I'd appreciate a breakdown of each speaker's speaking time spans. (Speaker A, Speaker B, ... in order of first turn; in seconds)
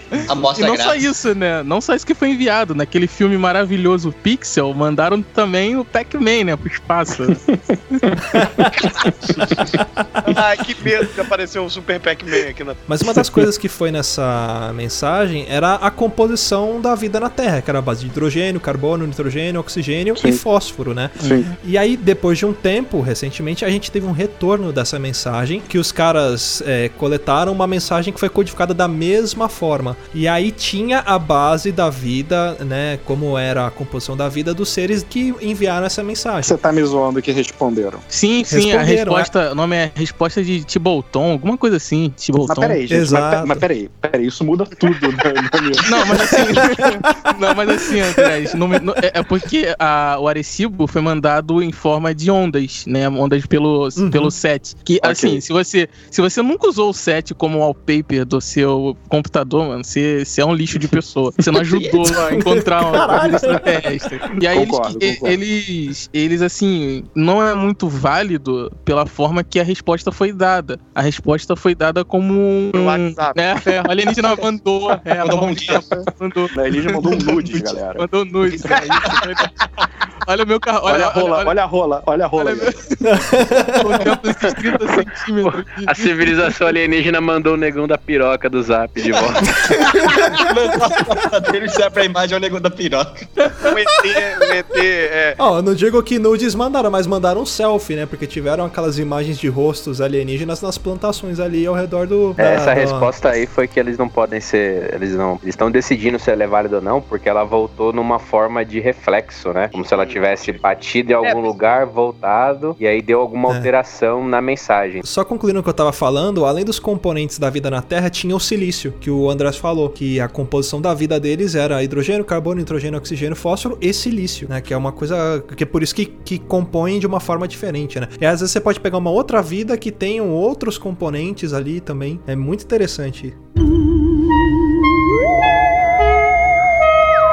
Speaker A: 0.1-8.0, 38.1-42.8, 45.8-79.5, 80.2-81.5, 82.4-83.0, 83.7-86.5
Speaker B: 0.3-1.1, 61.6-62.2, 75.2-75.9, 90.4-93.3
Speaker C: 7.5-9.6, 13.1-13.4, 20.2-20.4, 21.2-21.5, 36.4-38.0, 42.5-46.4, 55.0-55.4, 64.5-65.4, 76.5-78.1, 80.9-82.8
Speaker D: 8.8-9.1, 10.2-12.8, 72.7-73.4, 78.7-79.3, 93.6-95.4, 109.8-110.5, 111.2-111.6
Speaker E: 9.7-10.4, 12.9-36.6, 38.5-39.3, 42.9-43.6, 54.0-54.4, 62.3-63.8, 83.0-84.1, 89.7-90.4, 95.4-103.1, 113.5-113.7, 115.0-133.4
Speaker F: 85.4-89.9, 102.4-115.0